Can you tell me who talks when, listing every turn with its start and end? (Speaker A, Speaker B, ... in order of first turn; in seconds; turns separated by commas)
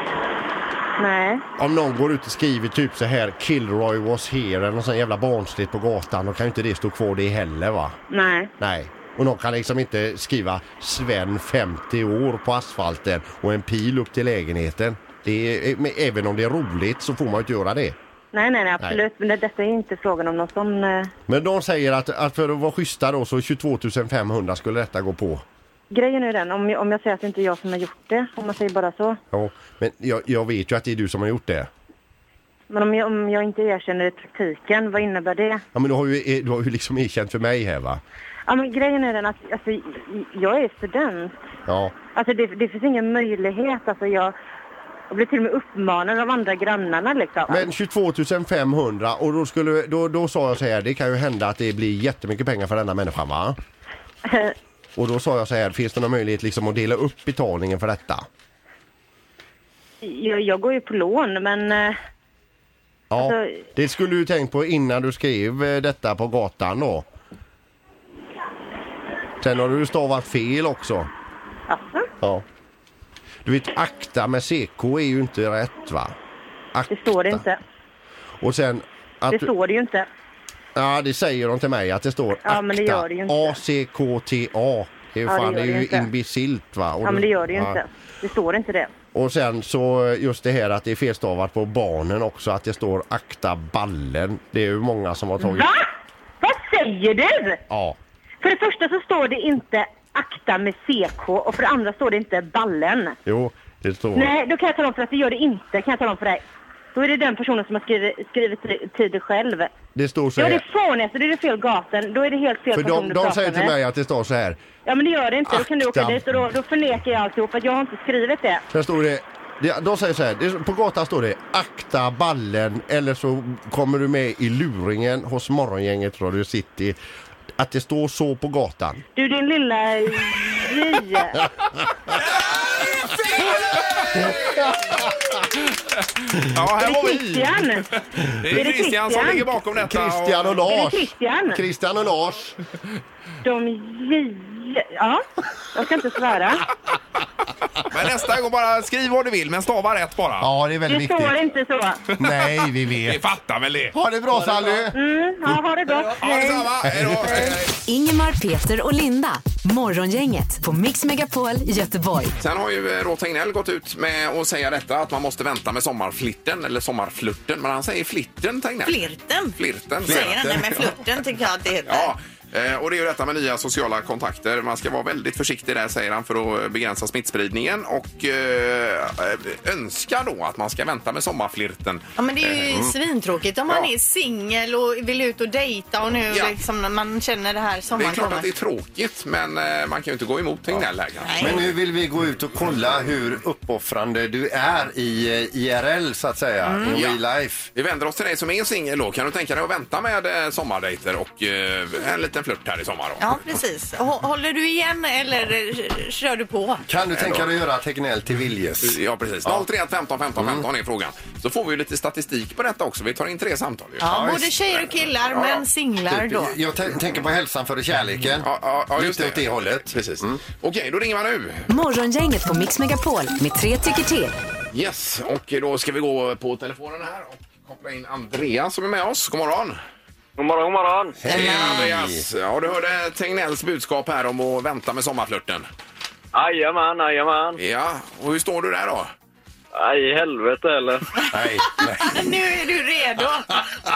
Speaker A: 1.0-1.4, Speaker B: 1.6-8.0, Speaker A: 8.1-8.5, Speaker B: 8.6-17.9, Speaker A: 18.3-21.1, Speaker B: 21.3-25.4, Speaker A: 25.9-29.2, Speaker B: 29.3-31.7, Speaker A: 32.7-35.6, Speaker B: 35.7-38.0, Speaker A: 38.5-41.4, Speaker B: 41.7-42.0, Speaker A: 42.1-44.4, Speaker A: 45.1-47.7, Speaker B: 47.5-53.6, Speaker A: 54.3-54.5, Speaker B: 55.0-58.2, Speaker A: 60.0-62.0, Speaker B: 63.1-67.0, Speaker A: 63.2-63.6, Speaker B: 69.4-71.1, Speaker A: 71.7-72.1, Speaker B: 73.4-76.1, Speaker B: 76.7-77.4, Speaker A: 76.9-77.6, Speaker B: 78.4-79.5, Speaker A: 79.3-80.1, Speaker B: 80.8-87.8, Speaker A: 82.4-83.6, Speaker A: 85.3-86.1, Speaker A: 87.0-88.9, Speaker B: 89.1-95.7, Speaker A: 95.4-95.9, Speaker A: 96.4-97.6, Speaker B: 97.7-98.0, Speaker A: 98.4-103.2, Speaker B: 103.2-104.3, Speaker A: 104.1-106.4, Speaker A: 106.9-109.7, Speaker B: 109.9-110.6, Speaker A: 110.4-113.7, Speaker B: 112.7-114.6, Speaker A: 114.8-118.6, Speaker B: 115.5-116.4, Speaker B: 118.7-127.0, Speaker B: 127.6-129.0, Speaker A: 129.2-131.4, Speaker C: 134.0-134.3, Speaker B: 134.1-135.2, Speaker C: 136.3-137.7, Speaker A: 136.8-137.8, Speaker C: 138.2-140.6, Speaker A: 138.5-139.5, Speaker B: 139.7-142.6, Speaker A: 140.7-141.6, Speaker A: 143.4-146.6, Speaker C: 147.9-150.5, Speaker B: 150.4-151.4, Speaker A: 150.9-152.0, Speaker B: 152.2-153.2, Speaker C: 153.0-153.9, Speaker B: 153.9-154.9, Speaker A: 154.9-156.7, Speaker C: 156.2-157.7, Speaker B: 156.9-157.3, Speaker D: 157.8-162.3, Speaker C: 162.4-169.0, Speaker E: 168.8-172.1, Speaker C: 169.6-170.9, Speaker F: 170.0-170.8, Speaker C: 171.8-182.7, Speaker E: 182.2-188.5, Speaker C: 186.3-186.5, Speaker C: 187.9-191.7, Speaker E: 191.2-191.6, Speaker F: 191.4-197.7, Speaker E: 196.6-197.0, Speaker C: 196.9-197.2, Speaker C: 197.7-203.4, Speaker E: 203.2-206.8, Speaker F: 206.9-209.7, Speaker C: 207.1-207.5, Speaker C: 208.8-214.1, Speaker F: 210.3-210.6, Speaker E: 214.0-216.6, Speaker F: 214.0-214.5, Speaker C: 214.7-215.6, Speaker F: 216.1-220.4, Speaker C: 218.4-221.7, Speaker D: 221.7-224.4, Speaker C: 224.7-229.8, Speaker G: 230.4-231.2, Speaker F: 231.2-232.2, Speaker C: 231.2-235.7, Speaker G: 236.3-237.6, Speaker C: 237.6-239.1, Speaker G: 239.7-241.1, Speaker E: 241.2-243.7, Speaker F: 241.3-242.2